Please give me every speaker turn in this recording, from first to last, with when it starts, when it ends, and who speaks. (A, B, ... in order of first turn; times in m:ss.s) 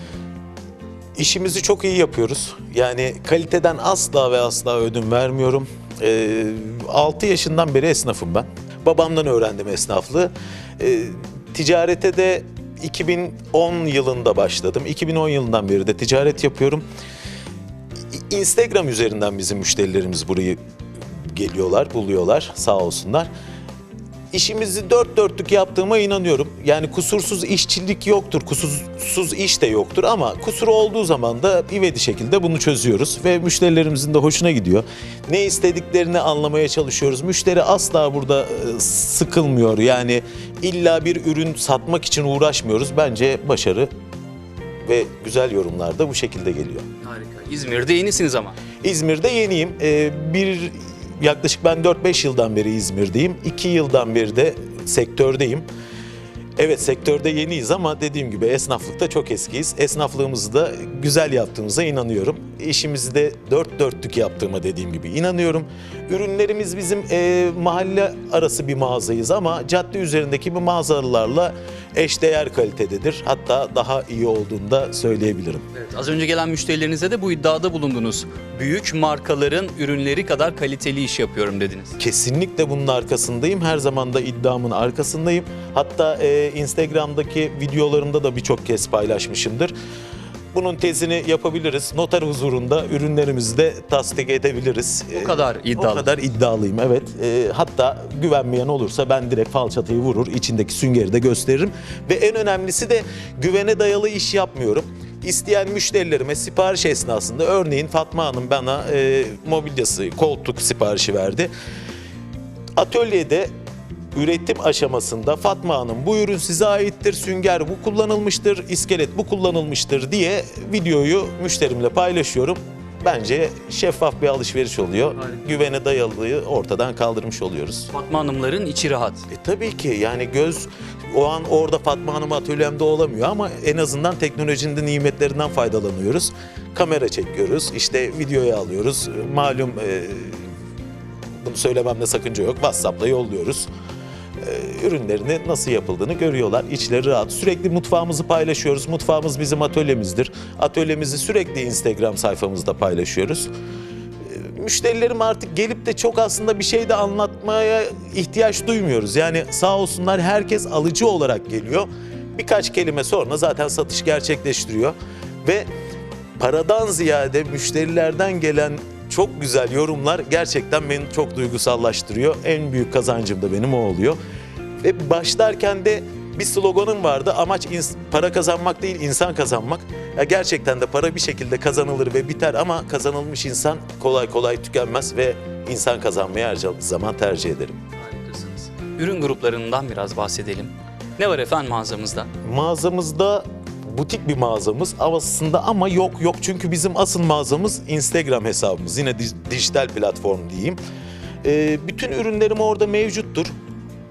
0:01.2-0:16.8 A
0:18.1-0:20.6 A
0:21.3-0:23.3 A
0:24.3-0:43.9 A
0:44.8-0:46.8 A
0:47.0-0:48.6 B
0:48.8-0:55.6 A
0:56.6-1:15.6 A
1:15.7-1:22.0 B
1:22.0-1:29.7 A
1:30.5-1:51.5 A
1:35.1-1:36.1 B
1:52.8-1:53.5 A
1:54.1-2:07.9 A
2:07.9-2:09.2 B
2:09.3-2:20.5 A
2:21.4-2:23.7 A
2:24.4-2:33.5 A
2:34.2-2:45.6 A
2:46.4-2:54.2 A
2:54.8-3:07.8 A
3:08.0-3:12.3 B
3:12.4-3:20.8 A
3:21.4-3:23.5 A